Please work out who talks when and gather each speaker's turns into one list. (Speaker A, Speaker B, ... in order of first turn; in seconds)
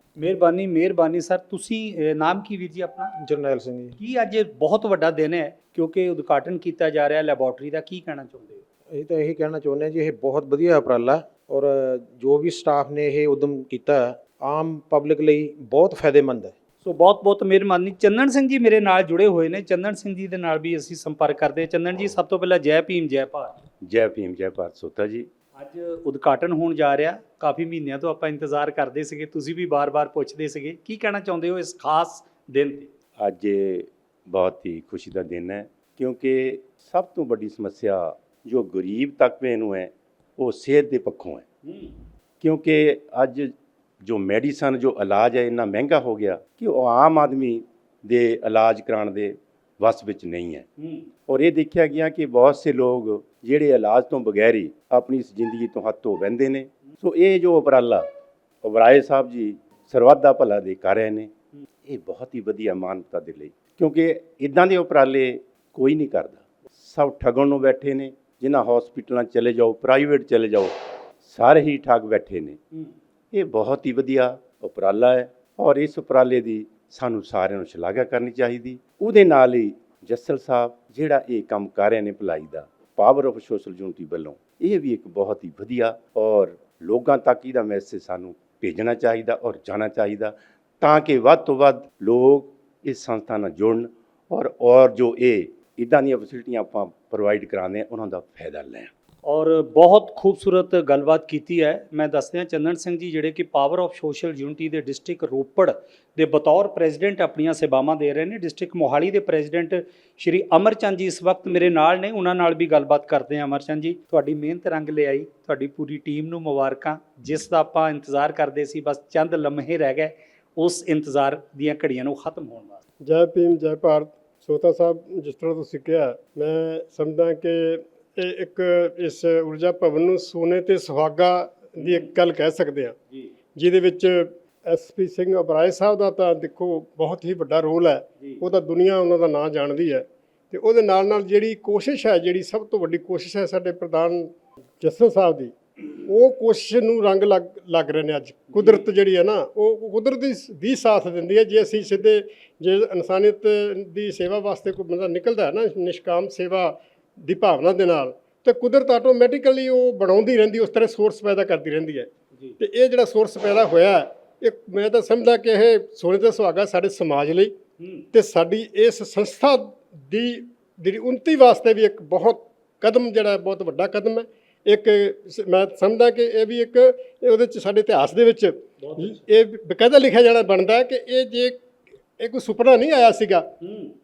Speaker A: 0.2-3.1, 4.0-8.6, 16.8-23.6, 25.6-32.9, 41.6-42.0, 50.8-51.1, 99.2-122.8, 131.8-132.1, 148.5-148.8, 167.8-168.1, 178.8-179.2, 183.6-183.9
Speaker B: 3.2-3.9, 8.9-16.5
Speaker C: 23.8-25.3, 33.2-41.4, 42.4-50.7, 51.3-58.1, 58.6-61.3, 61.9-72.6, 73.3-98.9
Speaker D: 123.0-132.9, 133.6-144.3, 144.8-145.5, 146.1-162.1, 162.6-167.5, 168.1-181.6, 182.2-183.5